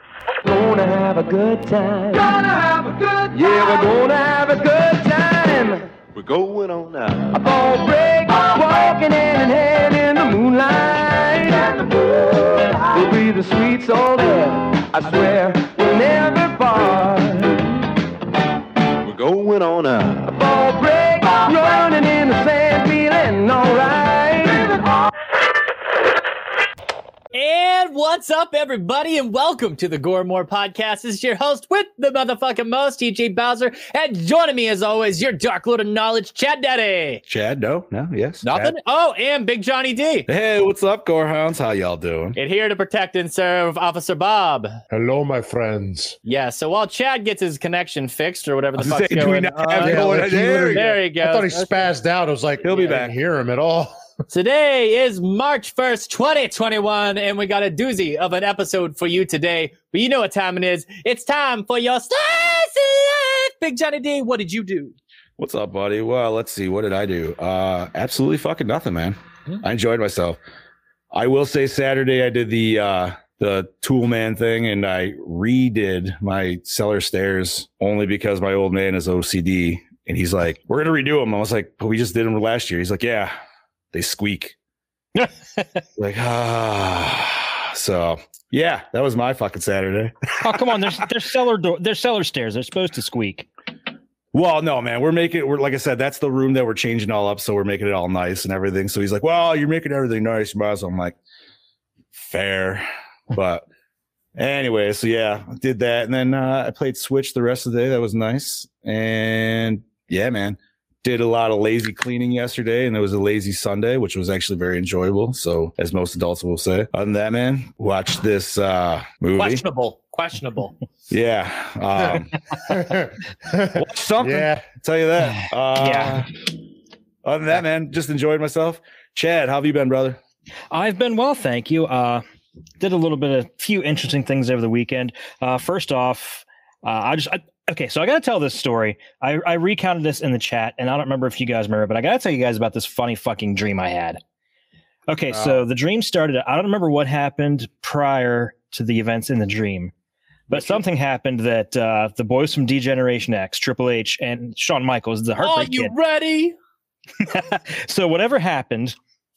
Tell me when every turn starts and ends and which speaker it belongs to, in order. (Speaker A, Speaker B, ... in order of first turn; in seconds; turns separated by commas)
Speaker A: 0.4-5.9, Speaker B: 6.1-7.3, Speaker A: 7.3-17.7, Speaker B: 19.0-20.3, Speaker A: 20.3-24.9, Speaker C: 27.3-37.2, Speaker D: 37.3-38.7, Speaker C: 38.4-40.3, Speaker D: 40.3-42.4, Speaker C: 42.4-44.7, Speaker E: 44.9-46.2, Speaker C: 46.2-51.9, Speaker D: 48.8-50.9, Speaker E: 49.8-54.0, Speaker D: 52.6-53.1, Speaker C: 54.3-64.9, Speaker D: 65.4-70.4, Speaker D: 71.1-83.3, Speaker D: 83.9-84.5, Speaker F: 85.2-85.8, Speaker D: 86.0-90.3, Speaker F: 90.4-93.5, Speaker D: 94.3-101.2, Speaker D: 102.1-103.7, Speaker D: 104.3-119.6, Speaker C: 119.3-120.7, Speaker D: 121.1-122.4, Speaker E: 122.7-124.7, Speaker D: 123.7-126.3, Speaker F: 125.8-126.2, Speaker D: 127.2-130.2, Speaker F: 130.7-132.2, Speaker F: 132.8-144.2, Speaker F: 145.1-149.9, Speaker D: 145.3-145.6, Speaker F: 150.5-155.9, Speaker C: 155.4-156.6, Speaker F: 157.2-158.9